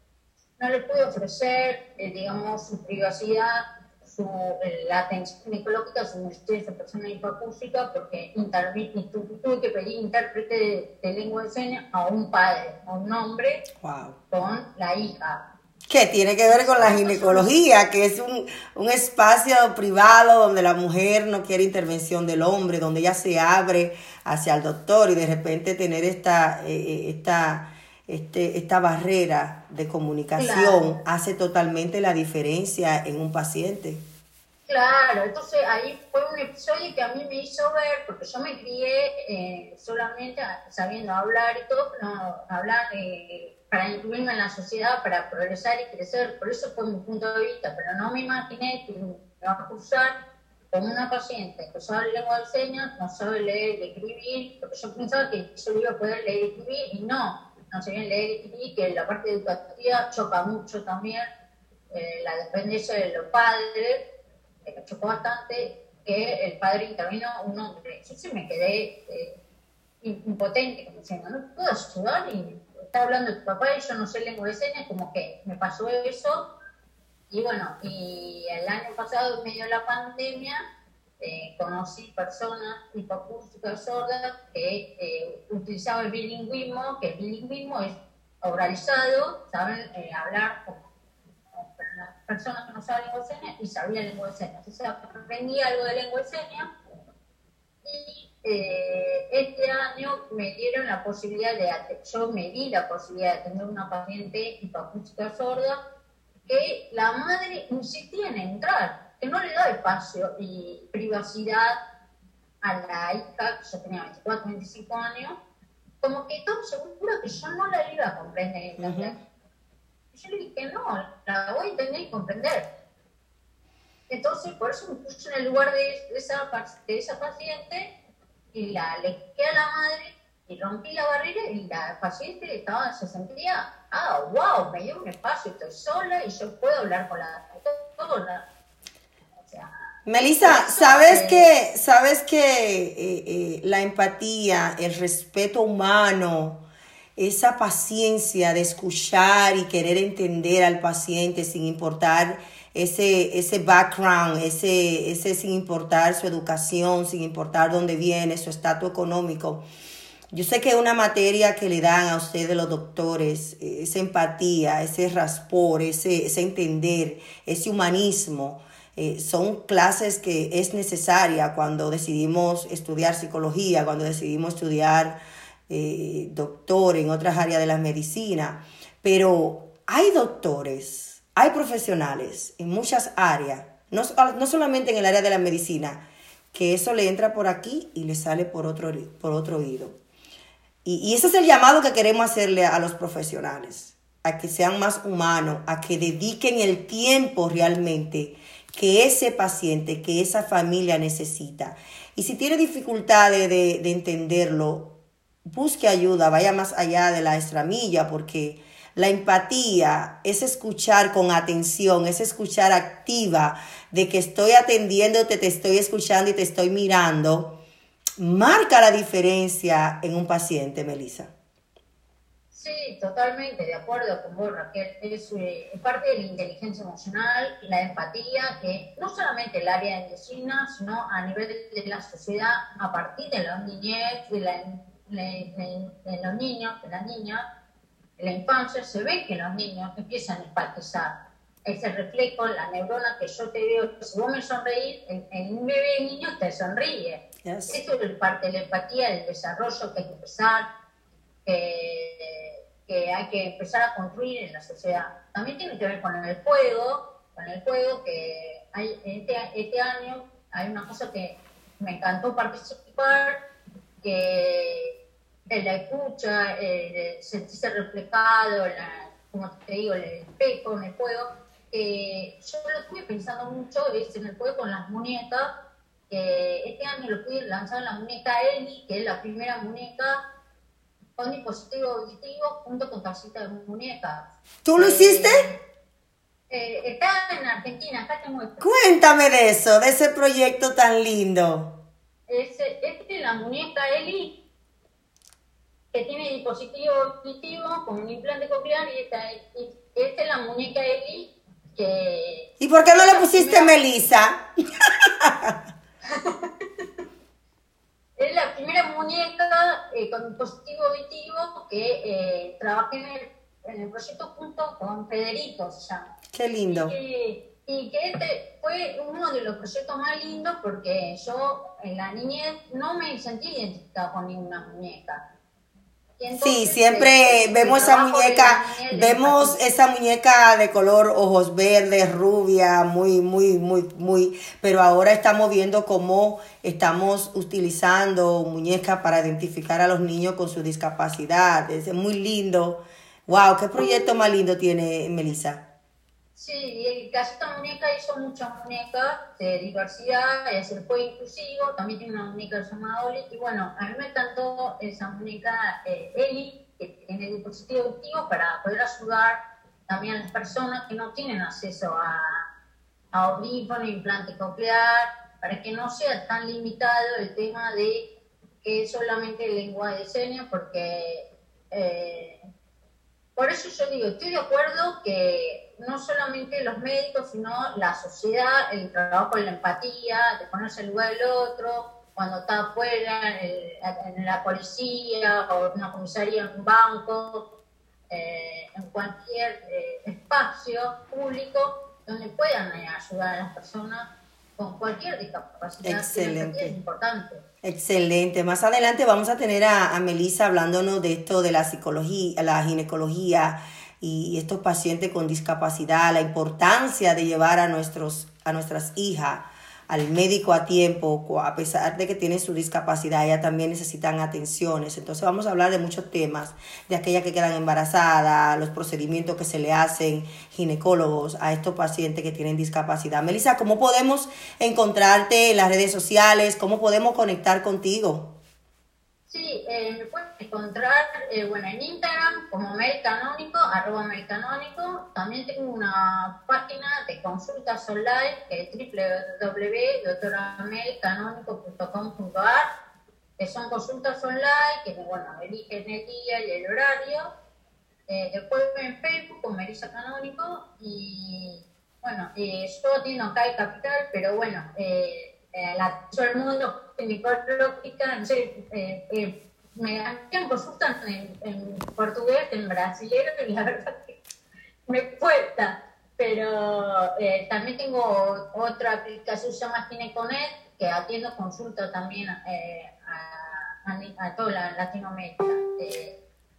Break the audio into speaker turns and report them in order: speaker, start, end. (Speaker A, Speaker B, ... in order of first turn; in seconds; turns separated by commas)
Speaker A: 0.6-13.6, Speaker B: 13.8-14.2, Speaker A: 14.3-15.4, Speaker B: 15.9-34.0, Speaker A: 16.5-17.5, Speaker A: 30.4-31.0, Speaker A: 34.7-50.1, Speaker A: 50.7-61.2, Speaker A: 61.9-64.0, Speaker A: 64.7-69.4, Speaker A: 70.0-76.5, Speaker A: 77.3-80.6, Speaker A: 81.2-90.8, Speaker A: 91.5-96.7, Speaker A: 97.8-105.8, Speaker A: 106.5-111.8, Speaker A: 112.6-115.4, Speaker A: 116.0-119.2, Speaker B: 118.8-119.1, Speaker A: 120.1-122.7, Speaker A: 124.1-127.9, Speaker A: 128.5-138.4, Speaker A: 139.4-139.7, Speaker B: 140.1-146.6, Speaker A: 140.4-141.5, Speaker B: 147.2-159.6, Speaker B: 160.3-175.2, Speaker B: 175.7-186.0, Speaker B: 186.5-189.9, Speaker B: 190.8-204.9, Speaker B: 205.4-217.5, Speaker B: 218.2-221.3, Speaker A: 222.5-237.5, Speaker A: 238.2-250.7, Speaker B: 247.4-247.8, Speaker A: 251.4-263.4, Speaker A: 264.0-264.9, Speaker A: 265.5-275.5, Speaker A: 276.1-280.2, Speaker A: 281.2-285.6, Speaker B: 284.6-285.4, Speaker A: 286.5-288.7, Speaker B: 288.6-291.7, Speaker A: 292.3-294.4, Speaker A: 295.9-303.7, Speaker B: 302.6-305.5, Speaker A: 306.0-306.5, Speaker A: 308.2-316.1, Speaker B: 316.3-316.9, Speaker A: 316.7-325.2, Speaker A: 326.2-329.6, Speaker B: 326.3-345.6, Speaker A: 346.4-362.5, Speaker A: 363.1-368.1, Speaker A: 368.6-372.4, Speaker A: 373.4-387.5, Speaker A: 388.1-397.4, Speaker B: 395.8-396.8, Speaker B: 397.6-428.3, Speaker A: 429.3-442.6, Speaker A: 443.4-447.3, Speaker A: 448.1-464.1, Speaker A: 464.9-476.2